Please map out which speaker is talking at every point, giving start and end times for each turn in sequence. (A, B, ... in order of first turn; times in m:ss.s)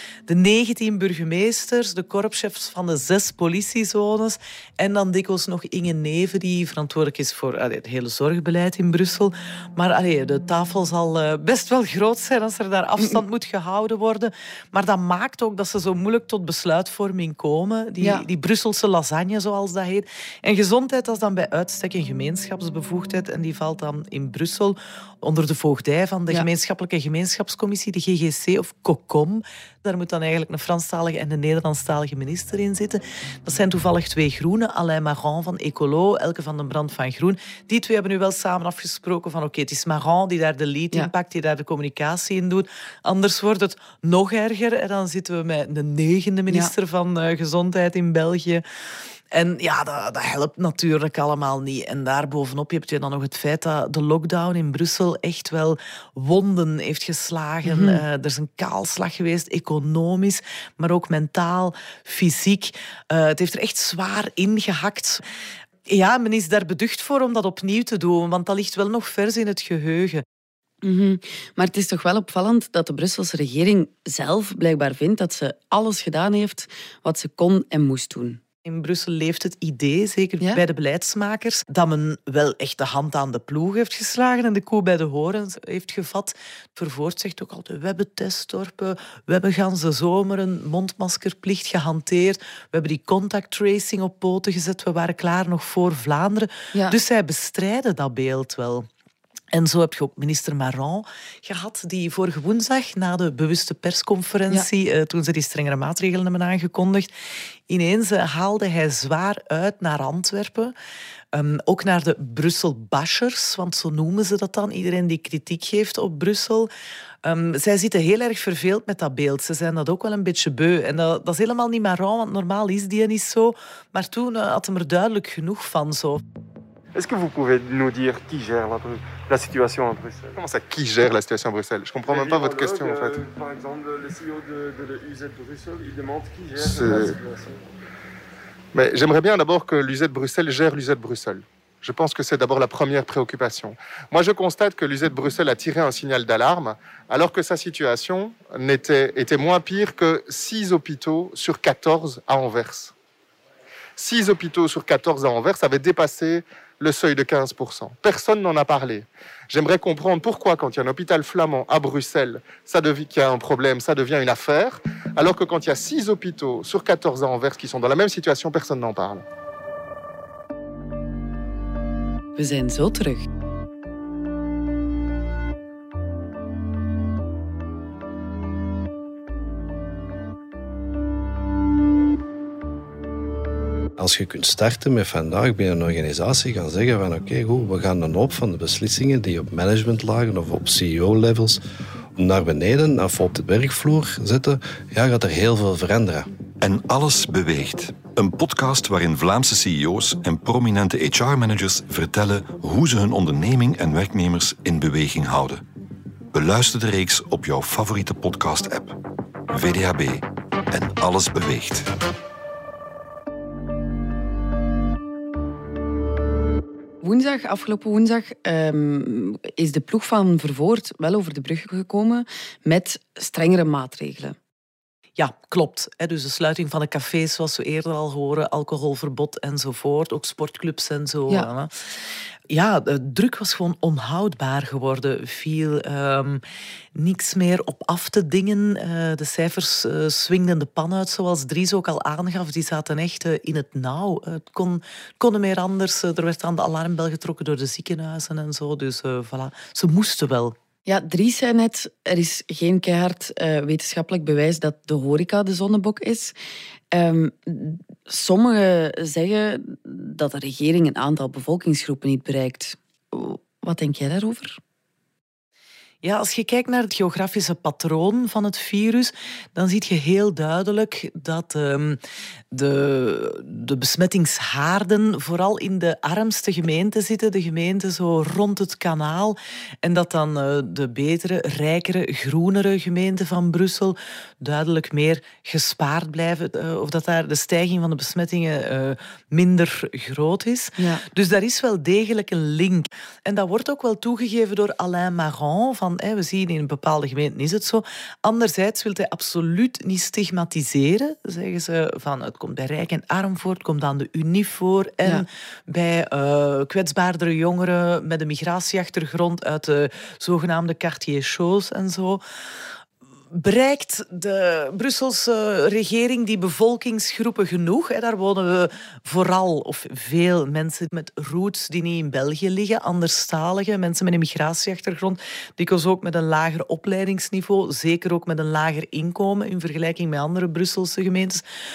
0:00.3-0:48.6 A
0:18.0-0:18.3 B
0:49.3-1:05.2 A
0:57.6-0:58.0 B
1:05.9-1:10.2 A
1:10.8-1:18.4 B
1:18.6-1:38.9 A
1:39.5-1:47.1 A
1:47.7-1:50.8 A
1:51.3-1:56.7 A
1:57.2-2:06.2 A
2:06.9-2:10.4 C
2:10.4-2:13.2 D
2:12.0-2:17.7 C
2:16.6-2:17.2 D
2:18.7-2:32.9 D
2:34.0-2:49.2 D
2:52.4-2:53.2 B
3:04.0-3:11.6 E
3:12.2-3:16.3 E
3:16.6-3:25.6 F
3:26.3-3:29.0 F
3:29.5-3:31.9 F
3:37.0-3:44.4 B
3:45.2-3:51.7 A
3:52.5-3:56.4 A
3:57.0-4:10.6 A
4:10.9-4:16.4 B
4:16.9-4:24.6 B
4:26.0-4:32.0 A
4:32.5-5:12.2 A
4:50.8-4:51.0 B
5:13.3-5:31.4 A